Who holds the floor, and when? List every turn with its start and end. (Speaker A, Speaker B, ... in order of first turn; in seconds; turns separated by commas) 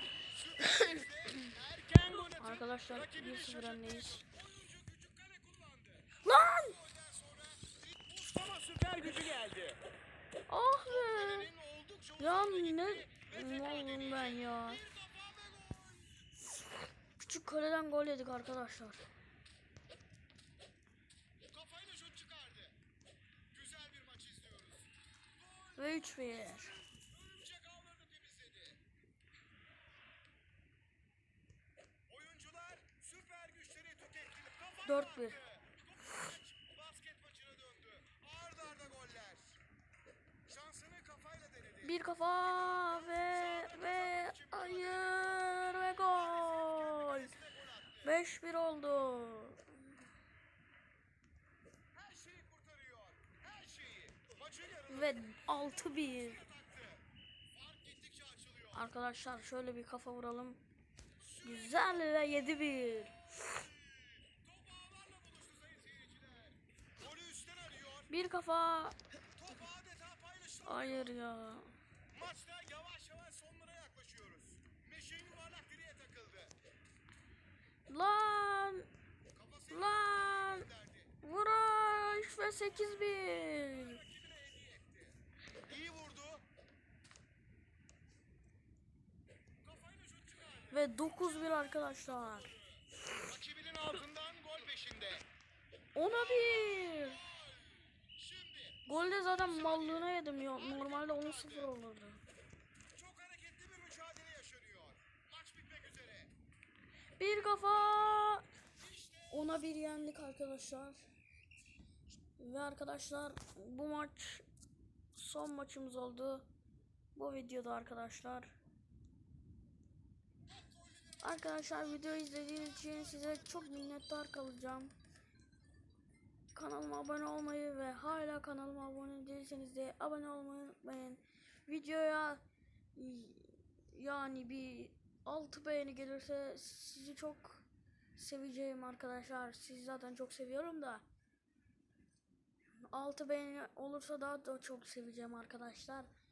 Speaker A: 0.2-9.8, Speaker B: 2.3-4.3, Speaker B: 6.2-6.8, Speaker B: 10.5-11.5, Speaker A: 10.8-16.2, Speaker B: 12.2-14.8, Speaker B: 17.2-19.1, Speaker A: 21.5-22.8, Speaker A: 23.5-28.8, Speaker B: 25.8-26.7, Speaker A: 32.1-39.6, Speaker B: 34.8-35.4, Speaker A: 40.5-48.2, Speaker B: 41.8-47.3, Speaker B: 48.0-49.9, Speaker A: 51.9-58.9, Speaker B: 54.9-56.4, Speaker B: 58.7-60.6, Speaker A: 61.2-68.1, Speaker B: 61.4-63.6, Speaker B: 68.1-69.0, Speaker A: 69.3-71.1, Speaker B: 70.6-71.7, Speaker A: 72.1-76.5, Speaker B: 77.9-78.9, Speaker A: 79.3-81.1, Speaker B: 79.7-80.7, Speaker B: 81.2-84.0, Speaker A: 83.7-86.4, Speaker A: 89.6-95.2, Speaker B: 90.7-92.5, Speaker B: 95.9-97.2, Speaker A: 96.0-101.7, Speaker B: 98.8-102.2, Speaker A: 102.9-106.3, Speaker B: 107.2-108.5, Speaker A: 107.7-109.8, Speaker B: 109.3-111.0, Speaker B: 112.4-114.4, Speaker B: 115.1-116.5, Speaker B: 117.1-118.5, Speaker A: 120.5-124.0, Speaker B: 121.2-124.9, Speaker B: 126.5-132.4, Speaker B: 132.9-141.0, Speaker B: 142.9-146.1